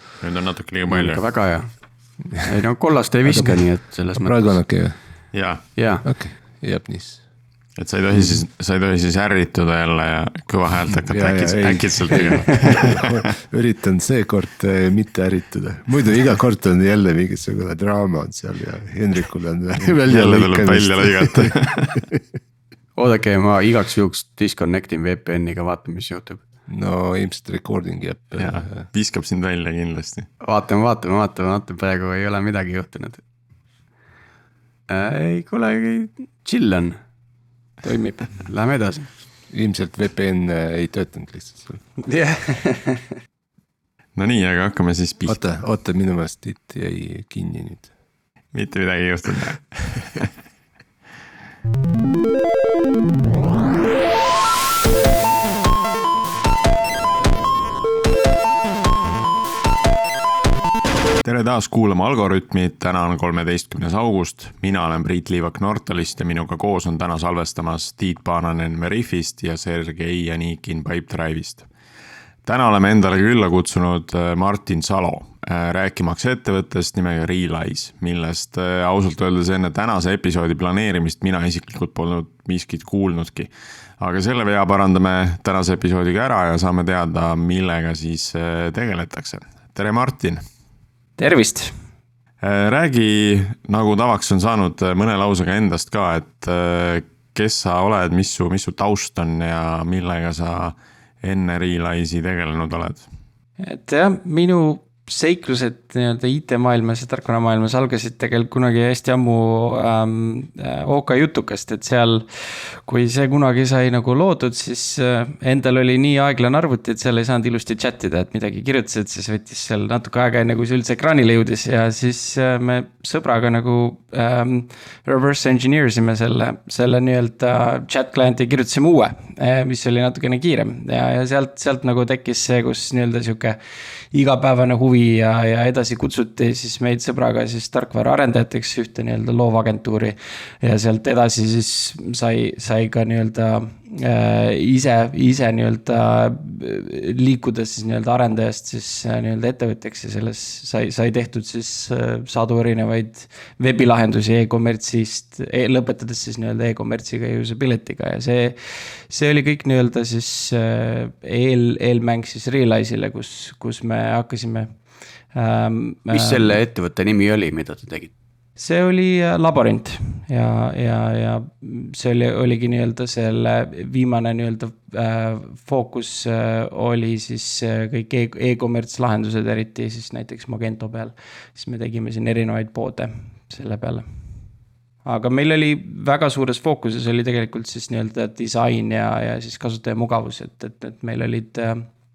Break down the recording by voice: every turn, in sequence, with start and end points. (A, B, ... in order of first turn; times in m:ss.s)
0:00.2-0:01.3 A
0:00.9-0:01.7 B
0:02.4-0:04.6 B
0:03.2-0:05.0 C
0:05.3-0:05.6 A
0:05.8-0:06.0 B
0:06.0-0:07.2 C
0:07.8-0:13.2 A
0:11.1-0:21.6 C
0:12.1-0:12.8 B
0:20.1-0:22.1 A
0:23.0-0:26.4 B
0:26.7-0:28.9 C
0:28.4-0:30.3 A
0:30.4-0:33.2 B
0:34.9-0:37.0 B
0:37.8-0:38.2 D
0:38.2-0:39.1 B
0:39.5-0:41.8 C
0:42.2-0:42.7 B
0:44.2-0:45.4 A
0:45.3-0:47.9 C
0:48.5-0:50.3 A
1:01.2-1:11.7 A
1:12.4-1:30.4 A
1:31.2-1:31.7 D
1:32.4-1:43.1 A
1:43.6-1:52.3 D
1:52.9-2:13.6 D
2:14.1-2:38.6 D
2:39.1-2:44.7 D
2:45.3-2:46.6 D
2:46.1-2:48.1 B
2:48.6-3:04.0 D
3:05.0-3:11.9 D